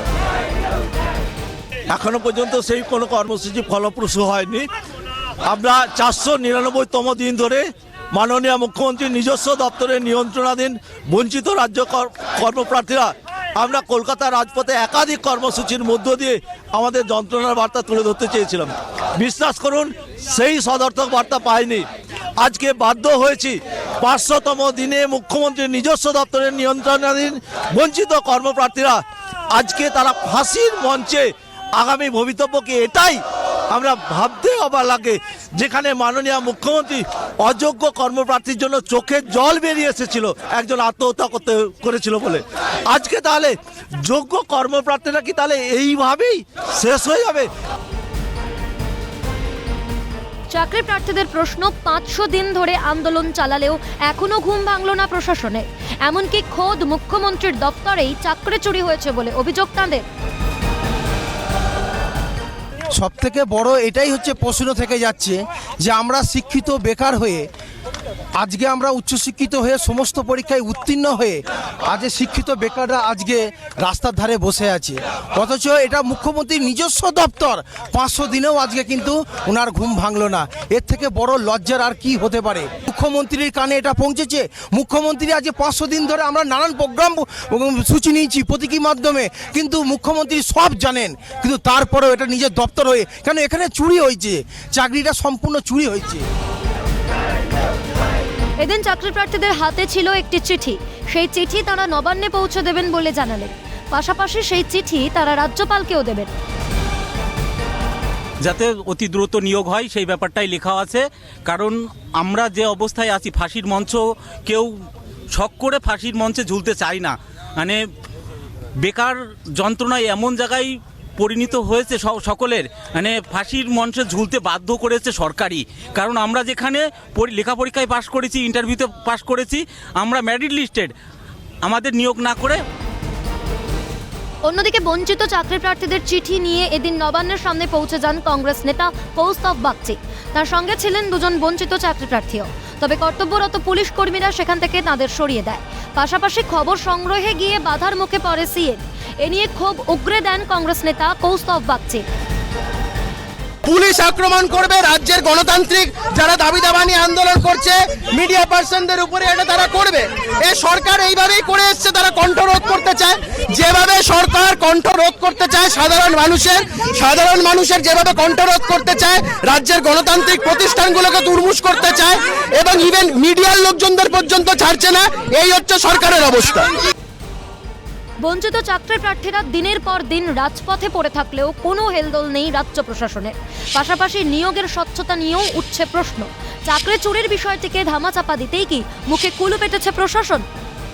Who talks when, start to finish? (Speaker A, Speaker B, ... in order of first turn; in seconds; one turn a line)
Speaker A: 1.9-4.7
Speaker A: 5.5-21.9
Speaker A: 22.4-29.0
Speaker A: 29.5-47.5
Speaker B: 50.5-60.0
Speaker C: 63.0-67.5
Speaker C: 68.4-96.2
Speaker B: 98.6-106.3
Speaker D: 108.4-117.8
Speaker D: 118.8-130.9
Speaker D: 131.6-132.6
Speaker B: 134.4-152.0
Speaker E: 153.7-176.7
Speaker B: 178.2-190.4